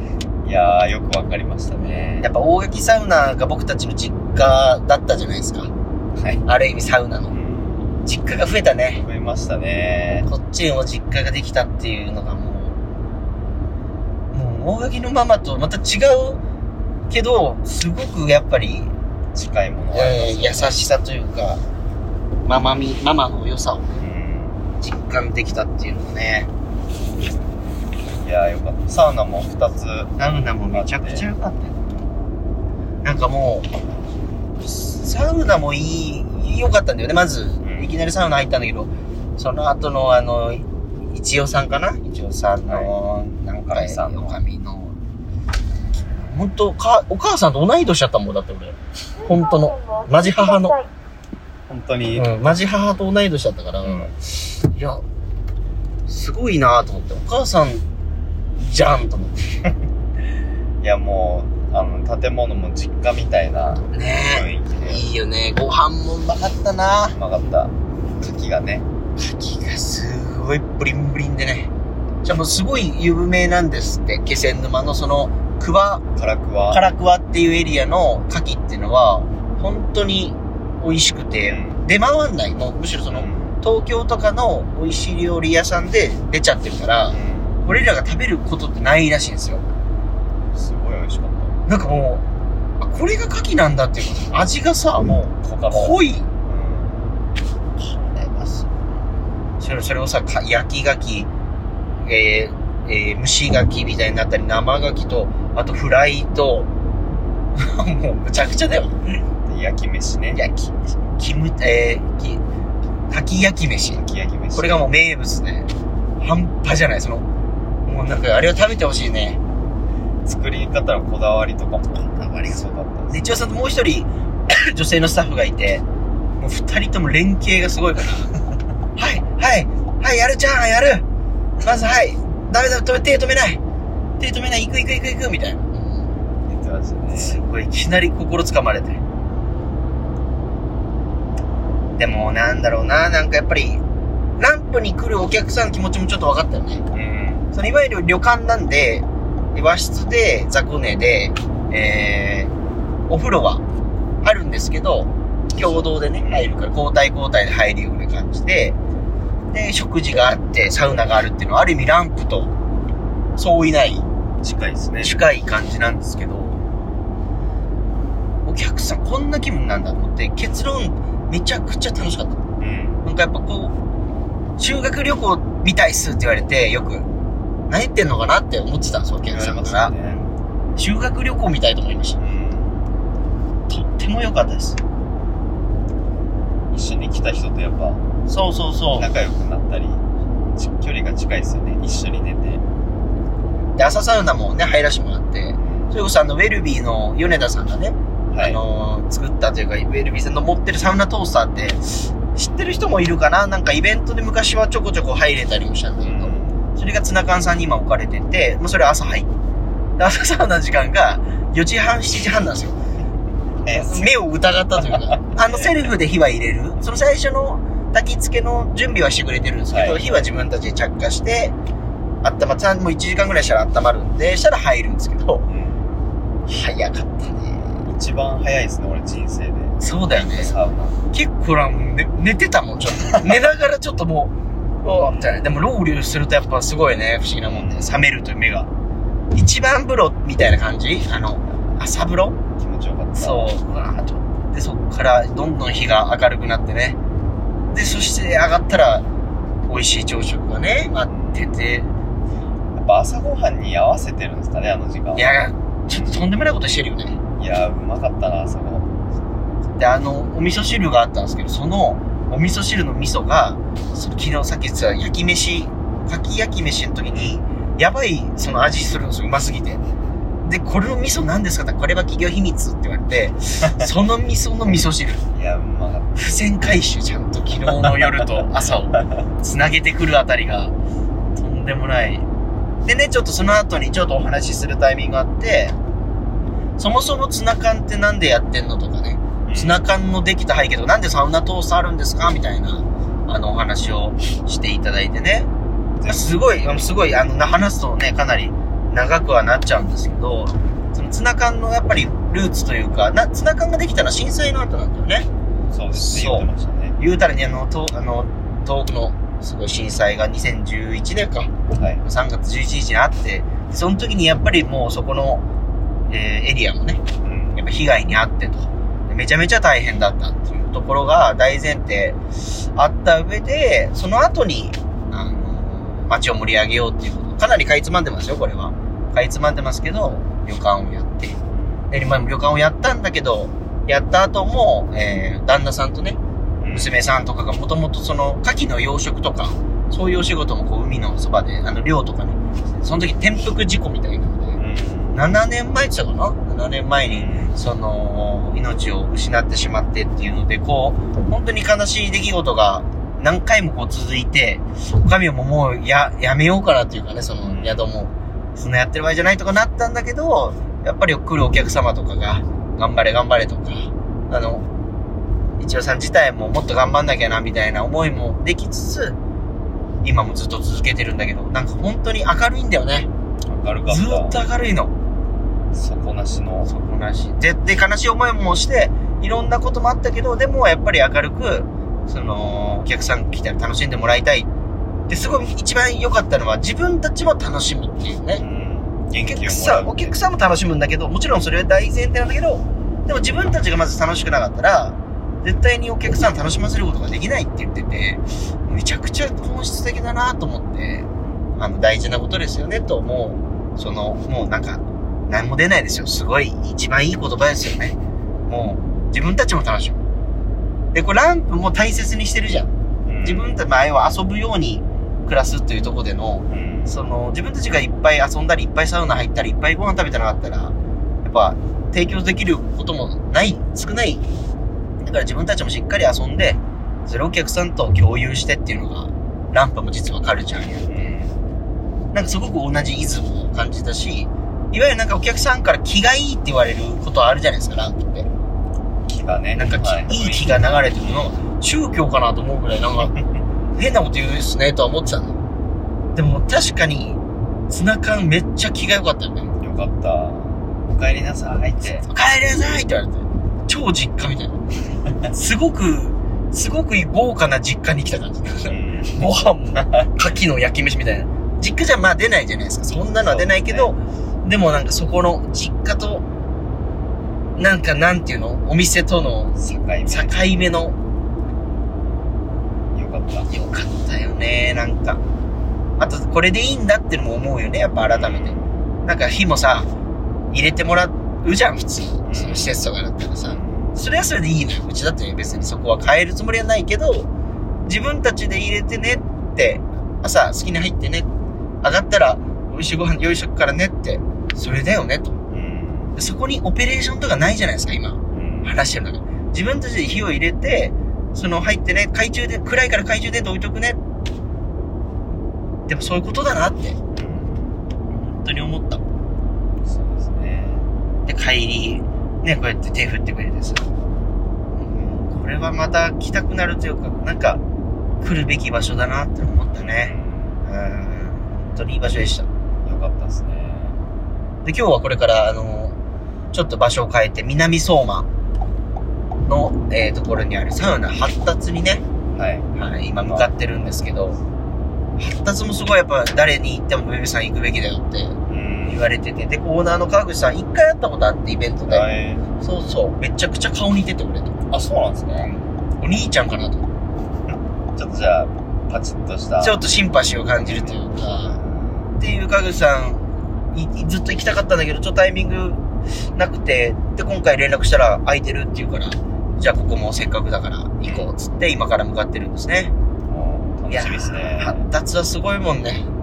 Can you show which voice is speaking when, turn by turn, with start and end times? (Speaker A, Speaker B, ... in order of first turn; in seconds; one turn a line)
Speaker A: 0.4-2.3
Speaker B: 2.2-5.7
Speaker A: 6.1-6.4
Speaker B: 6.5-7.3
Speaker A: 7.3-7.8
Speaker B: 8.0-9.0
Speaker A: 9.0-10.3
Speaker B: 10.2-12.8
Speaker B: 14.3-16.4
Speaker B: 17.1-18.9
Speaker A: 19.3-20.8
Speaker B: 19.9-21.6
Speaker B: 22.4-23.9
Speaker A: 24.0-24.6
Speaker B: 24.8-26.5
Speaker A: 28.2-31.2
Speaker B: 30.2-32.1
Speaker B: 33.0-33.7
Speaker B: 34.6-44.9
Speaker A: 37.6-37.9
Speaker A: 43.7-44.4
Speaker B: 46.2-50.8
Speaker A: 51.7-52.7
Speaker B: 52.1-55.0
Speaker A: 53.8-54.1
Speaker B: 56.1-57.8
Speaker B: 58.6-59.6
Speaker A: 60.8-65.0
Speaker B: 63.9-67.2
Speaker A: 67.1-68.8
Speaker B: 69.2-71.7
Speaker B: 72.2-76.0
Speaker A: 76.2-76.8
Speaker B: 76.7-89.6
Speaker A: 81.4-81.8
Speaker A: 83.1-83.5
Speaker A: 87.1-87.6
Speaker A: 90.5-91.6
Speaker B: 91.7-92.2
Speaker B: 92.8-96.3
Speaker A: 95.4-97.2
Speaker B: 97.8-98.8
Speaker B: 99.6-101.3
Speaker B: 102.0-106.7
Speaker B: 107.5-109.2
Speaker A: 109.5-110.4
Speaker B: 110.3-112.4
Speaker B: 113.1-114.0
Speaker A: 113.9-114.9
Speaker B: 114.5-117.2
Speaker B: 117.8-119.4
Speaker A: 120.2-123.3
Speaker B: 122.2-125.8
Speaker B: 126.4-128.3
Speaker B: 128.9-131.0
Speaker B: 131.6-133.6
Speaker B: 134.2-136.1
Speaker A: 136.5-137.4
Speaker B: 137.1-139.0
Speaker B: 142.0-143.8
Speaker B: 144.4-146.8
Speaker A: 146.9-147.5
Speaker B: 147.5-152.5
Speaker B: 153.1-153.6
Speaker B: 154.2-158.8
Speaker A: 155.6-156.5
Speaker B: 159.5-162.5
Speaker B: 163.4-164.0
Speaker A: 164.4-165.1
Speaker B: 165.0-166.6
Speaker B: 168.4-172.4
Speaker A: 172.6-173.0
Speaker B: 173.0-173.7
Speaker B: 174.6-177.1
Speaker B: 177.7-179.9
Speaker A: 179.2-180.3
Speaker B: 180.8-182.2
Speaker A: 182.2-182.8
Speaker B: 183.7-184.8
Speaker A: 186.7-188.0
Speaker B: 188.3-189.1
Speaker A: 189.0-190.0
Speaker A: 190.6-192.6
Speaker B: 193.8-209.3
Speaker A: 198.3-198.6
Speaker A: 206.0-206.6
Speaker B: 210.0-212.8
Speaker A: 213.6-214.1
Speaker B: 213.7-221.5
Speaker A: 214.8-215.7
Speaker A: 219.7-220.1
Speaker B: 222.2-225.4
Speaker A: 225.5-225.9
Speaker B: 226.5-227.8
Speaker A: 227.8-231.0
Speaker B: 229.8-230.6
Speaker B: 231.1-238.7
Speaker A: 237.4-238.0
Speaker B: 239.3-242.4
Speaker A: 242.6-243.5
Speaker B: 243.2-247.0
Speaker B: 247.7-249.1
Speaker B: 249.7-251.9
Speaker A: 251.1-251.5
Speaker A: 252.7-255.3
Speaker B: 255.1-257.2
Speaker A: 255.9-256.2
Speaker A: 257.4-259.5
Speaker B: 259.8-269.8
Speaker A: 267.1-267.4
Speaker B: 270.4-275.2
Speaker A: 273.6-273.9
Speaker A: 275.3-276.2
Speaker B: 276.1-280.7
Speaker A: 277.7-278.1
Speaker A: 278.9-279.3
Speaker B: 281.4-282.2
Speaker B: 282.8-285.7
Speaker B: 286.8-295.5
Speaker A: 289.4-289.8
Speaker A: 296.0-296.4
Speaker B: 296.1-305.3
Speaker A: 305.7-307.0
Speaker B: 305.9-315.4
Speaker A: 311.7-312.0
Speaker B: 316.1-317.0
Speaker A: 317.2-317.6
Speaker B: 317.6-322.2
Speaker B: 322.7-331.4
Speaker A: 331.5-331.8
Speaker B: 331.9-336.2
Speaker A: 336.6-336.9
Speaker B: 336.7-344.6
Speaker A: 344.6-345.2
Speaker B: 345.1-364.6
Speaker A: 347.1-347.6
Speaker A: 357.4-357.9
Speaker B: 365.6-369.2
Speaker B: 370.0-373.1
Speaker A: 373.5-374.4
Speaker B: 373.9-374.9
Speaker A: 375.7-376.7
Speaker B: 376.6-384.5
Speaker B: 385.1-388.4
Speaker A: 388.4-390.1
Speaker B: 389.2-408.0
Speaker B: 408.5-410.0
Speaker B: 410.9-412.7
Speaker A: 413.1-413.6
Speaker B: 413.2-424.2
Speaker A: 416.5-417.0
Speaker B: 425.0-431.1
Speaker A: 430.9-431.4
Speaker B: 432.1-438.3
Speaker A: 439.1-441.3
Speaker B: 439.6-443.1
Speaker B: 443.8-445.4
Speaker B: 446.1-449.5
Speaker A: 449.6-452.1
Speaker B: 452.1-454.6
Speaker B: 455.3-466.2
Speaker A: 458.7-460.1
Speaker A: 463.1-463.9
Speaker B: 467.6-470.9
Speaker A: 469.5-470.6
Speaker A: 472.9-473.5
Speaker B: 473.5-475.2
Speaker B: 476.0-479.9
Speaker A: 478.1-478.7
Speaker B: 480.5-487.3
Speaker A: 482.2-482.7
Speaker A: 483.4-483.9
Speaker B: 487.8-491.3
Speaker B: 491.8-495.3
Speaker A: 495.5-496.1
Speaker B: 496.1-504.0
Speaker A: 498.3-498.7
Speaker B: 505.9-507.0
Speaker A: 507.1-507.7
Speaker B: 508.1-509.0
Speaker A: 509.8-510.9
Speaker B: 511.2-513.9
Speaker B: 514.8-517.6
Speaker B: 518.2-520.1
Speaker A: 519.8-520.6
Speaker B: 520.6-522.5
Speaker A: 522.8-524.0
Speaker B: 524.6-526.0
Speaker B: 526.5-528.3
Speaker B: 529.4-532.0
Speaker A: 532.3-534.2
Speaker B: 532.7-534.4
Speaker B: 535.2-538.4
Speaker A: 538.5-539.1
Speaker B: 538.9-542.0
Speaker A: 541.9-542.4
Speaker B: 542.6-544.6
Speaker A: 544.7-545.5
Speaker B: 545.4-546.9
Speaker A: 547.5-549.8
Speaker B: 549.6-551.6
Speaker A: 550.6-552.1
Speaker B: 552.2-555.8
Speaker B: 556.3-562.9
Speaker A: 561.0-561.3
Speaker A: 563.3-564.9
Speaker B: 563.9-566.1